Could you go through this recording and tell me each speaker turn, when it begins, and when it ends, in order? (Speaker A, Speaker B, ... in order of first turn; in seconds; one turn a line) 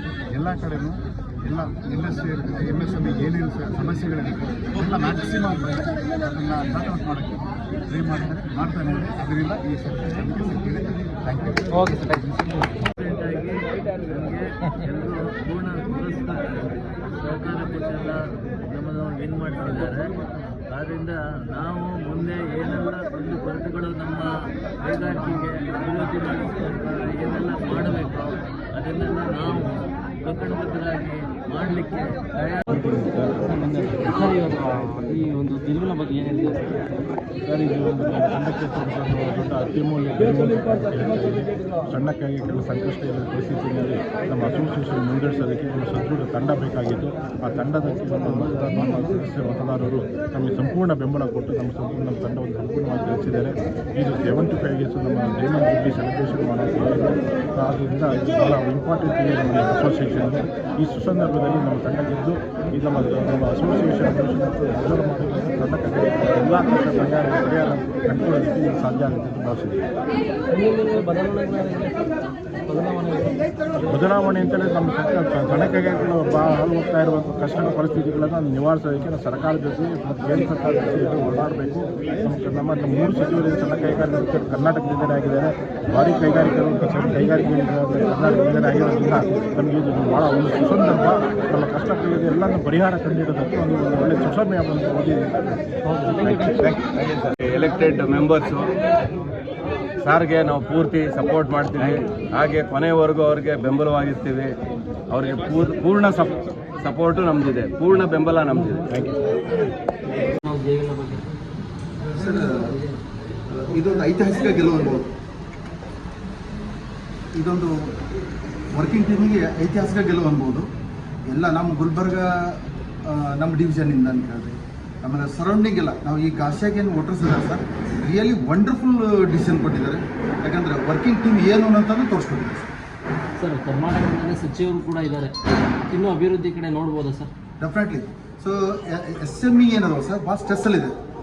Speaker A: 0.3-7.3
Speaker A: 7.9-11.9
Speaker B: 13.0-20.1
Speaker B: 20.7-32.7
Speaker C: 32.7-33.8
Speaker D: 33.4-36.9
Speaker C: 37.5-69.8
Speaker D: 70.5-73.4
Speaker C: 73.8-95.5
Speaker D: 95.9-96.5
Speaker C: 96.2-96.7
Speaker E: 96.6-98.7
Speaker E: 100.0-104.6
Speaker E: 105.1-109.1
Speaker D: 110.4-111.3
Speaker F: 112.1-112.8
Speaker F: 113.5-115.1
Speaker F: 117.3-117.7
Speaker F: 118.7-120.7
Speaker F: 121.3-132.7
Speaker D: 133.4-135.3
Speaker D: 135.9-137.3
Speaker F: 137.6-140.9